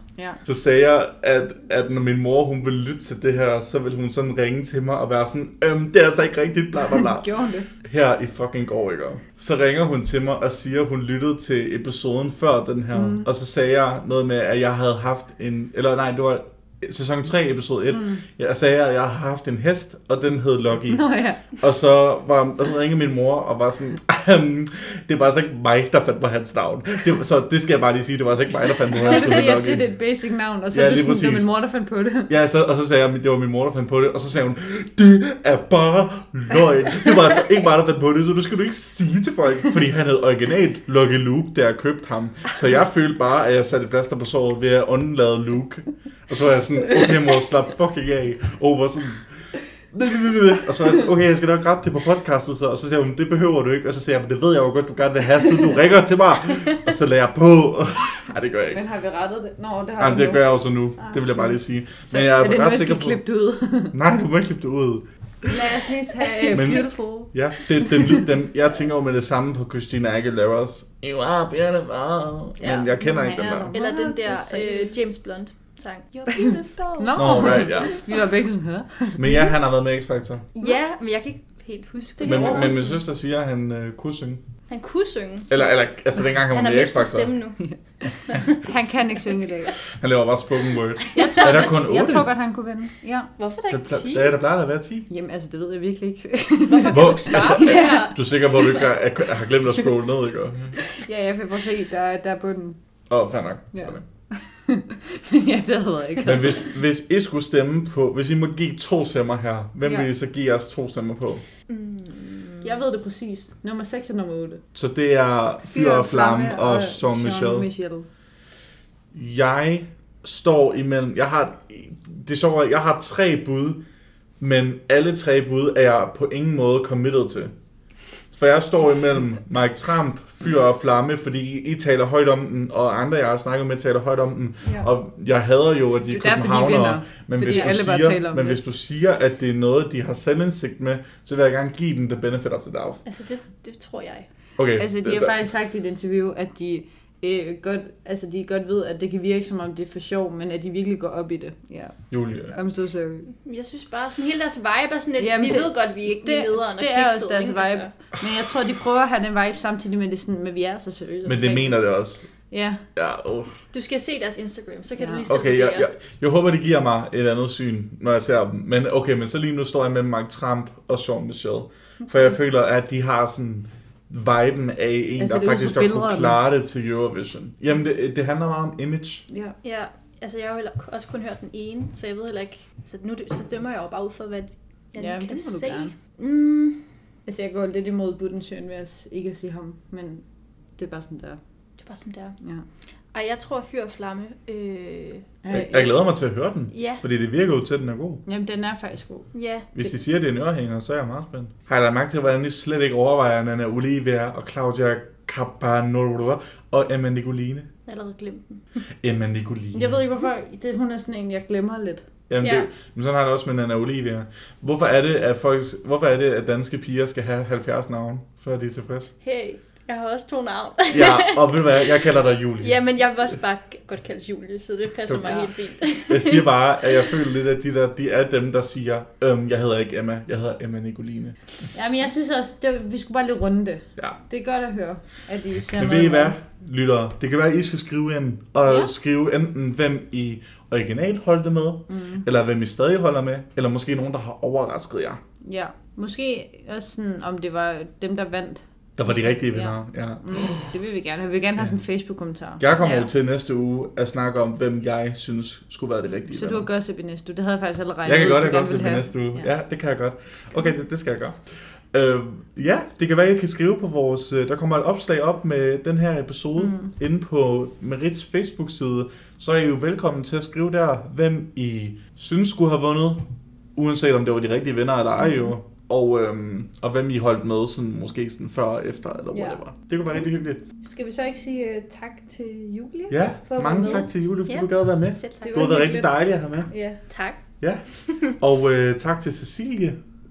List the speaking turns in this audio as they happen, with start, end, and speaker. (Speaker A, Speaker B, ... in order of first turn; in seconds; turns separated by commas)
Speaker A: 0.1-0.4, Speaker B: 0.4-29.9, Speaker A: 7.0-7.7, Speaker A: 12.9-13.3, Speaker A: 17.9-18.2, Speaker A: 20.9-21.6, Speaker A: 28.9-32.3, Speaker B: 30.7-31.5, Speaker B: 32.3-58.8, Speaker A: 58.7-63.9, Speaker B: 60.0-63.2, Speaker B: 63.9-65.6, Speaker A: 65.5-68.2, Speaker C: 66.5-67.1, Speaker B: 66.5-73.7, Speaker C: 72.6-72.9, Speaker A: 72.6-75.0, Speaker C: 73.7-78.0, Speaker A: 77.0-79.2, Speaker B: 77.1-77.9, Speaker B: 79.1-80.4, Speaker C: 80.5-82.9, Speaker A: 82.2-83.0, Speaker B: 82.2-84.4, Speaker C: 84.7-88.6, Speaker B: 85.5-87.5, Speaker A: 87.6-89.9, Speaker B: 89.9-92.3, Speaker C: 91.1-91.6, Speaker A: 91.2-93.4, Speaker C: 93.4-94.4, Speaker B: 93.7-95.1, Speaker A: 95.1-98.6, Speaker C: 96.7-98.8, Speaker B: 96.9-100.9, Speaker A: 101.0-106.6, Speaker B: 103.1-104.0, Speaker B: 106.2-111.4, Speaker A: 109.8-110.1, Speaker C: 111.7-112.8, Speaker A: 112.6-114.6, Speaker B: 114.7-117.7, Speaker A: 115.6-118.1, Speaker B: 119.1-123.8, Speaker B: 124.4-127.5, Speaker B: 128.3-143.0, Speaker A: 136.1-138.6, Speaker C: 143.0-144.3, Speaker B: 144.6-145.3, Speaker A: 144.8-153.3, Speaker B: 152.1-152.5, Speaker C: 153.4-157.9, Speaker A: 155.2-162.8, Speaker B: 161.2-163.5, Speaker C: 163.7-165.9, Speaker A: 165.0-165.2, Speaker B: 165.3-179.2, Speaker A: 175.2-176.4, Speaker A: 179.3-179.6, Speaker C: 179.6-186.9, Speaker A: 185.0-185.9, Speaker A: 187.2-191.4, Speaker C: 191.8-192.4, Speaker A: 192.4-192.7, Speaker C: 193.1-195.3, Speaker A: 195.4-196.0, Speaker B: 195.5-198.2, Speaker C: 196.7-197.0, Speaker A: 198.2-199.3, Speaker C: 199.3-199.8, Speaker B: 199.7-207.7, Speaker C: 207.8-208.8, Speaker B: 209.0-210.0, Speaker A: 209.7-212.1, Speaker B: 212.3-219.1, Speaker C: 212.4-212.7, Speaker C: 219.2-221.8, Speaker B: 220.9-223.1, Speaker C: 222.6-226.9, Speaker B: 225.1-231.4, Speaker A: 225.2-225.5, Speaker A: 231.7-236.3, Speaker B: 235.7-245.2, Speaker A: 238.7-238.9, Speaker A: 241.9-242.2, Speaker A: 245.4-252.6, Speaker B: 249.0-250.7, Speaker B: 252.6-256.7, Speaker C: 252.8-253.1, Speaker A: 256.3-259.5, Speaker B: 258.0-280.6, Speaker A: 266.6-266.9, Speaker A: 279.3-280.2, Speaker A: 280.8-284.1, Speaker B: 283.1-286.7, Speaker C: 283.8-285.8, Speaker A: 285.4-287.2, Speaker C: 287.1-288.3, Speaker B: 287.6-290.0